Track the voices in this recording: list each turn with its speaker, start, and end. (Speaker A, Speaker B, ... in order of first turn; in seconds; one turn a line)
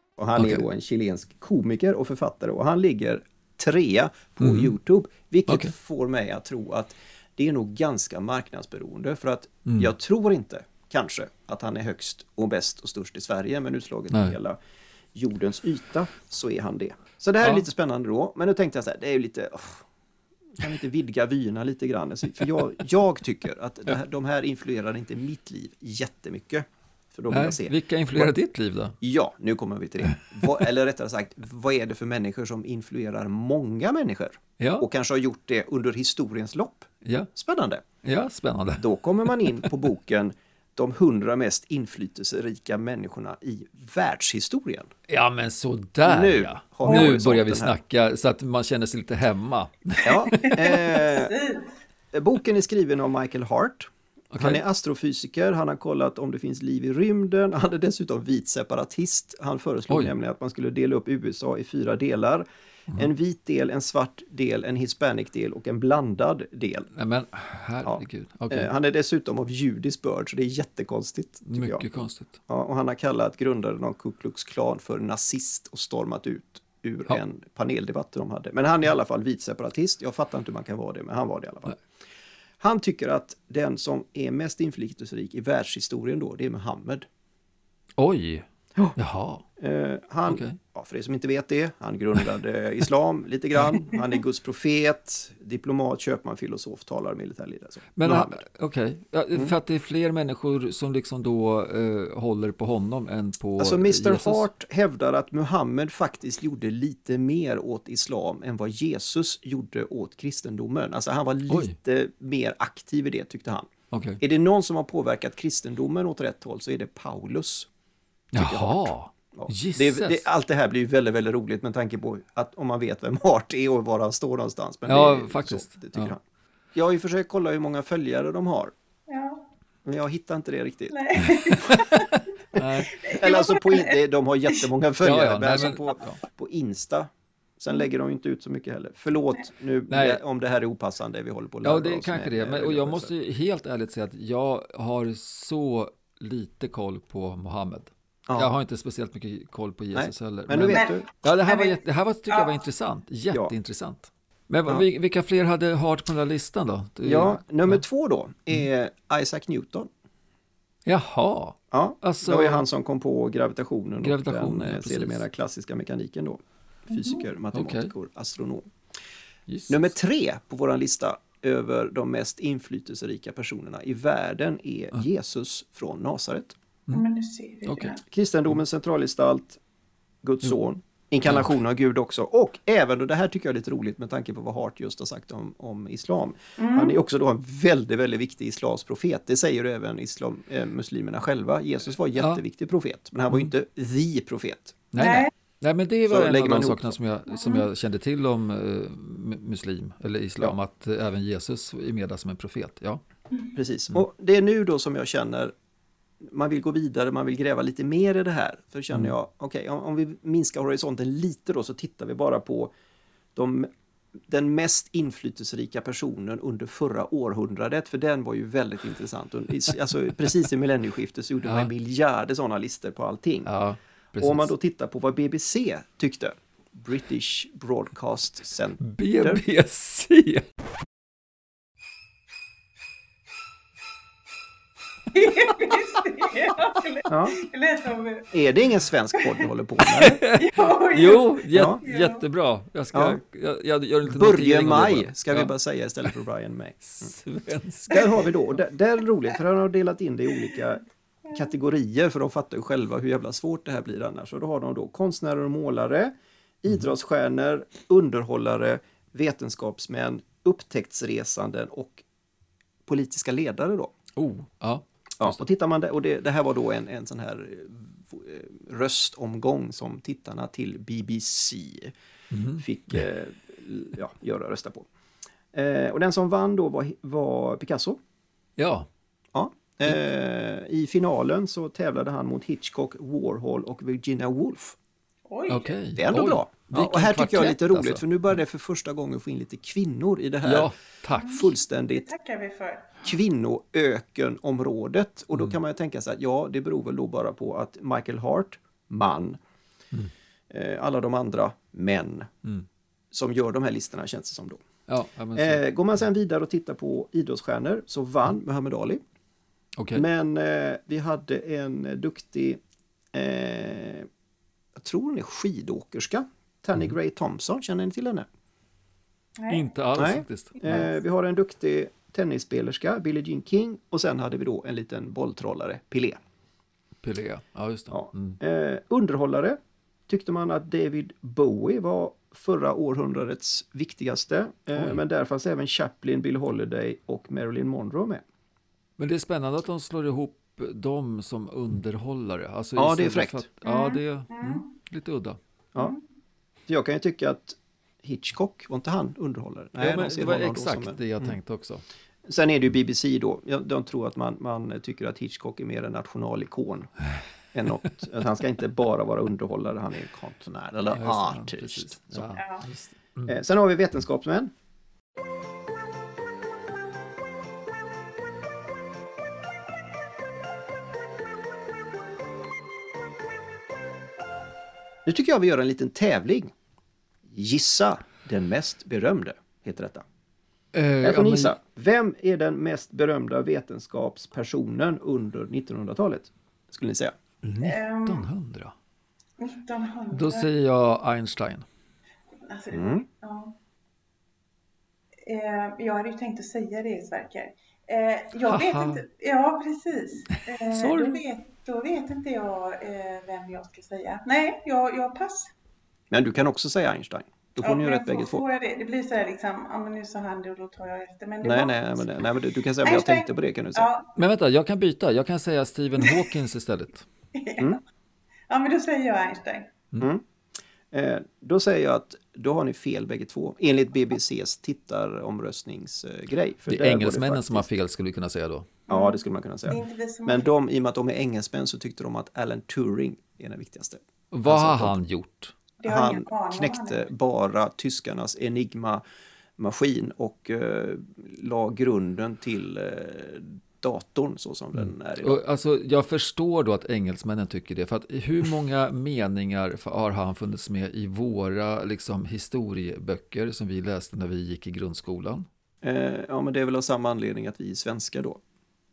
Speaker A: 0.2-14.6
Speaker B: 0.3-0.6
Speaker B: 4.4-4.7
Speaker B: 9.7-9.9
Speaker B: 14.1-14.3
Speaker A: 15.1-19.9
Speaker A: 20.6-28.3
Speaker B: 27.3-28.9
Speaker A: 29.0-37.8
Speaker B: 34.6-34.9
Speaker B: 38.0-39.7
Speaker A: 38.8-44.9
Speaker B: 45.1-50.5
Speaker A: 46.0-47.7
Speaker A: 50.0-51.3
Speaker C: 50.4-51.7
Speaker A: 52.1-66.9
Speaker B: 54.3-54.6
Speaker B: 67.0-68.7
Speaker A: 67.8-71.9
Speaker B: 71.5-72.3
Speaker A: 72.5-81.8
Speaker A: 82.6-87.1
Speaker B: 88.0-89.4
Speaker A: 89.6-98.4
Speaker B: 90.2-90.6
Speaker B: 98.0-104.4
Speaker A: 103.6-117.7
Speaker B: 111.5-111.7
Speaker B: 113.9-114.2
Speaker B: 118.3-120.2
Speaker A: 118.3-126.2
Speaker B: 124.9-126.1
Speaker A: 126.7-128.7
Speaker C: 129.1-129.4
Speaker A: 129.8-131.0
Speaker C: 130.9-132.1
Speaker B: 132.5-133.1
Speaker A: 132.6-143.1
Speaker C: 133.0-134.0
Speaker B: 135.0-136.2
Speaker B: 139.9-140.2
Speaker B: 141.6-157.8
Speaker A: 148.3-148.6
Speaker A: 149.9-151.1
Speaker C: 150.6-151.7
Speaker C: 152.3-152.5
Speaker A: 157.0-159.9
Speaker B: 160.8-162.6
Speaker A: 161.7-168.7
Speaker B: 164.0-165.2
Speaker C: 166.9-167.2
Speaker B: 167.5-167.9
Speaker B: 169.5-169.8
Speaker A: 169.7-176.6
Speaker C: 176.9-178.0
Speaker B: 177.7-177.9
Speaker A: 178.1-179.6
Speaker A: 180.2-194.9
Speaker C: 186.6-187.0
Speaker B: 194.9-203.0
Speaker C: 195.0-195.3
Speaker A: 196.1-196.9
Speaker C: 197.3-197.7
Speaker A: 203.6-205.5
Speaker A: 206.2-212.7
Speaker A: 213.3-223.5
Speaker B: 221.4-221.7
Speaker B: 223.4-224.5
Speaker A: 224.2-229.4
Speaker B: 228.8-230.4
Speaker C: 235.1-238.3
Speaker A: 237.1-237.4
Speaker A: 238.3-240.2
Speaker B: 240.0-245.5
Speaker C: 240.3-242.2
Speaker A: 241.5-241.8
Speaker A: 242.9-243.2
Speaker A: 244.1-247.1
Speaker B: 246.8-248.2
Speaker A: 247.9-262.0
Speaker A: 262.9-263.9
Speaker B: 264.2-265.4
Speaker A: 265.2-271.9
Speaker B: 272.3-273.0
Speaker A: 272.6-274.9
Speaker A: 275.5-278.0
Speaker B: 278.6-278.9
Speaker A: 279.3-284.8
Speaker C: 285.3-285.7
Speaker B: 285.5-288.0
Speaker A: 285.9-290.7
Speaker B: 290.4-291.5
Speaker C: 291.1-293.0
Speaker A: 291.3-292.1
Speaker A: 293.0-299.4
Speaker A: 300.5-302.3
Speaker A: 303.1-304.6
Speaker B: 304.9-305.6
Speaker A: 305.3-309.0
Speaker B: 309.8-310.0
Speaker A: 309.9-312.6
Speaker A: 313.1-314.1
Speaker A: 314.8-318.3
Speaker C: 319.4-319.6
Speaker B: 319.5-320.8
Speaker A: 319.9-326.2
Speaker C: 320.6-320.9
Speaker B: 327.0-328.4
Speaker A: 327.9-338.2
Speaker B: 334.7-335.0
Speaker B: 339.0-345.4
Speaker A: 342.8-343.4
Speaker C: 343.6-344.7
Speaker A: 346.7-351.4
Speaker B: 349.8-351.8
Speaker A: 352.2-356.9
Speaker A: 357.5-362.4
Speaker B: 360.9-363.4
Speaker C: 362.4-362.6
Speaker A: 363.2-364.5
Speaker A: 375.0-376.5
Speaker A: 377.3-380.1
Speaker B: 380.7-381.5
Speaker A: 381.0-387.2
Speaker B: 387.4-388.7
Speaker C: 387.6-388.3
Speaker C: 389.4-390.5
Speaker B: 390.1-391.6
Speaker C: 392.4-393.6
Speaker A: 392.7-393.0
Speaker C: 395.2-405.5
Speaker B: 398.4-399.0
Speaker B: 400.7-401.2
Speaker A: 406.1-408.4
Speaker C: 407.6-412.1
Speaker A: 411.4-413.9
Speaker C: 412.8-414.0
Speaker B: 414.2-417.1
Speaker C: 417.4-417.8
Speaker C: 418.5-419.7
Speaker A: 420.9-427.7
Speaker B: 426.7-428.7
Speaker C: 428.9-430.5
Speaker A: 428.9-435.0
Speaker B: 434.3-435.5
Speaker C: 435.8-437.1
Speaker A: 435.8-439.0
Speaker A: 439.6-445.4
Speaker B: 444.8-455.5
Speaker A: 455.8-458.4